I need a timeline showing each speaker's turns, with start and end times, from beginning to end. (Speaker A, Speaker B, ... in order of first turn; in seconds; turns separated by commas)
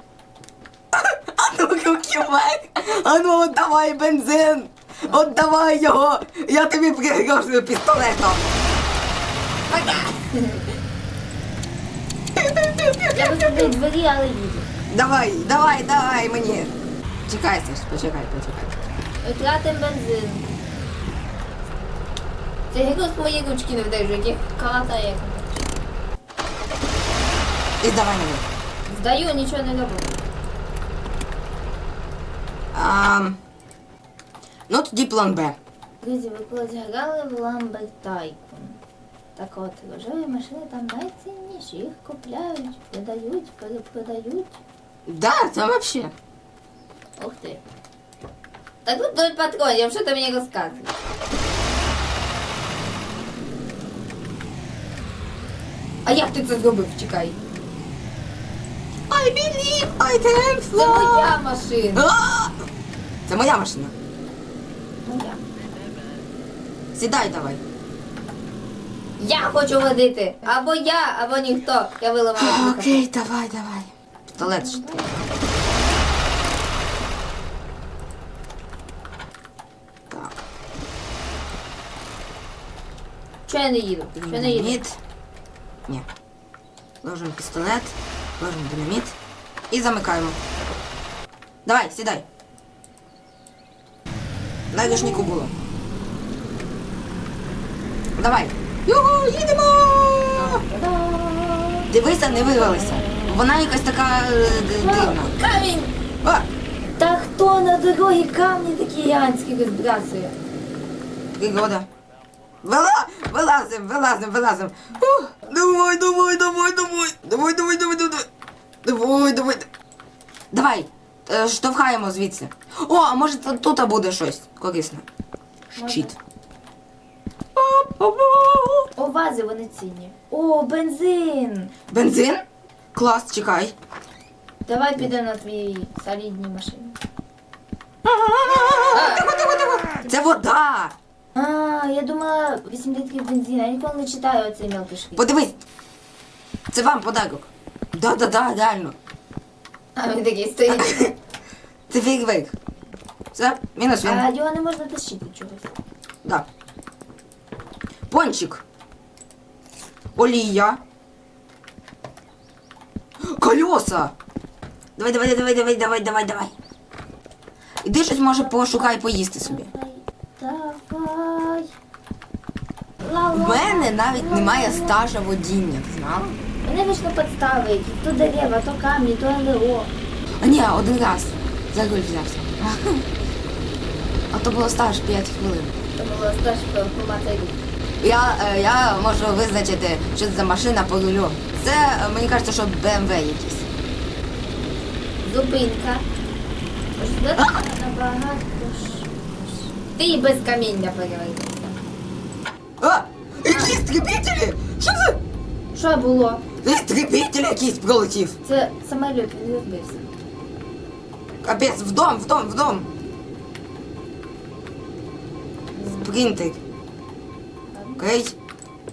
Speaker A: 0.9-8.4, Speaker B: 9.7-10.8, Speaker A: 12.4-13.5, Speaker B: 13.1-14.7, Speaker A: 14.9-16.7, Speaker A: 17.3-18.8, Speaker B: 19.2-20.5, Speaker B: 22.7-25.7, Speaker A: 27.8-28.4, Speaker B: 28.9-30.2, Speaker A: 32.7-33.4, Speaker A: 34.7-35.6, Speaker B: 36.0-38.8, Speaker B: 39.4-44.6, Speaker A: 45.1-46.1, Speaker B: 47.2-47.6, Speaker B: 48.8-51.0, Speaker B: 56.0-57.4, Speaker A: 59.1-61.4, Speaker B: 60.7-62.1, Speaker A: 61.9-62.6, Speaker A: 63.3-63.9, Speaker B: 65.0-65.4, Speaker A: 66.9-67.6, Speaker B: 69.2-73.1, Speaker A: 72.4-75.0, Speaker B: 74.4-75.3, Speaker A: 80.1-80.4, Speaker B: 83.5-84.8, Speaker A: 84.2-85.0, Speaker A: 87.0-89.2, Speaker A: 89.7-90.4, Speaker A: 91.7-92.2, Speaker A: 94.7-95.5, Speaker B: 94.8-95.4, Speaker A: 98.2-100.6, Speaker B: 100.3-103.5, Speaker A: 101.9-105.3, Speaker B: 104.4-105.9, Speaker B: 107.0-110.3, Speaker A: 111.4-111.9, Speaker A: 112.6-118.2, Speaker A: 118.8-119.7, Speaker A: 120.5-125.0, Speaker A: 125.7-126.1, Speaker B: 125.8-126.1, Speaker A: 127.5-128.9, Speaker B: 128.9-131.7, Speaker A: 131.9-132.4, Speaker A: 132.9-133.7, Speaker B: 134.7-137.0, Speaker A: 138.0-140.9, Speaker B: 138.9-139.3, Speaker B: 141.3-145.2, Speaker A: 145.2-145.6, Speaker A: 146.7-148.9, Speaker B: 149.9-151.1, Speaker A: 150.7-151.1, Speaker A: 151.9-152.5, Speaker A: 153.3-154.2, Speaker B: 154.0-155.7, Speaker A: 158.1-158.6, Speaker A: 160.2-160.8, Speaker A: 163.3-164.1, Speaker A: 165.0-166.5, Speaker A: 167.8-169.7, Speaker B: 168.4-171.7, Speaker B: 173.0-175.0, Speaker A: 173.3-176.4, Speaker B: 176.6-179.9, Speaker A: 180.4-183.0, Speaker A: 184.3-185.7, Speaker B: 185.9-187.6, Speaker A: 188.0-193.7, Speaker B: 195.2-196.0, Speaker B: 197.0-201.8, Speaker A: 202.8-205.2, Speaker B: 203.5-203.8, Speaker B: 205.7-206.4, Speaker A: 206.6-208.4, Speaker B: 208.4-210.1, Speaker A: 211.4-212.9, Speaker B: 215.7-216.2, Speaker A: 215.9-216.6, Speaker B: 217.7-218.0, Speaker A: 218.0-218.3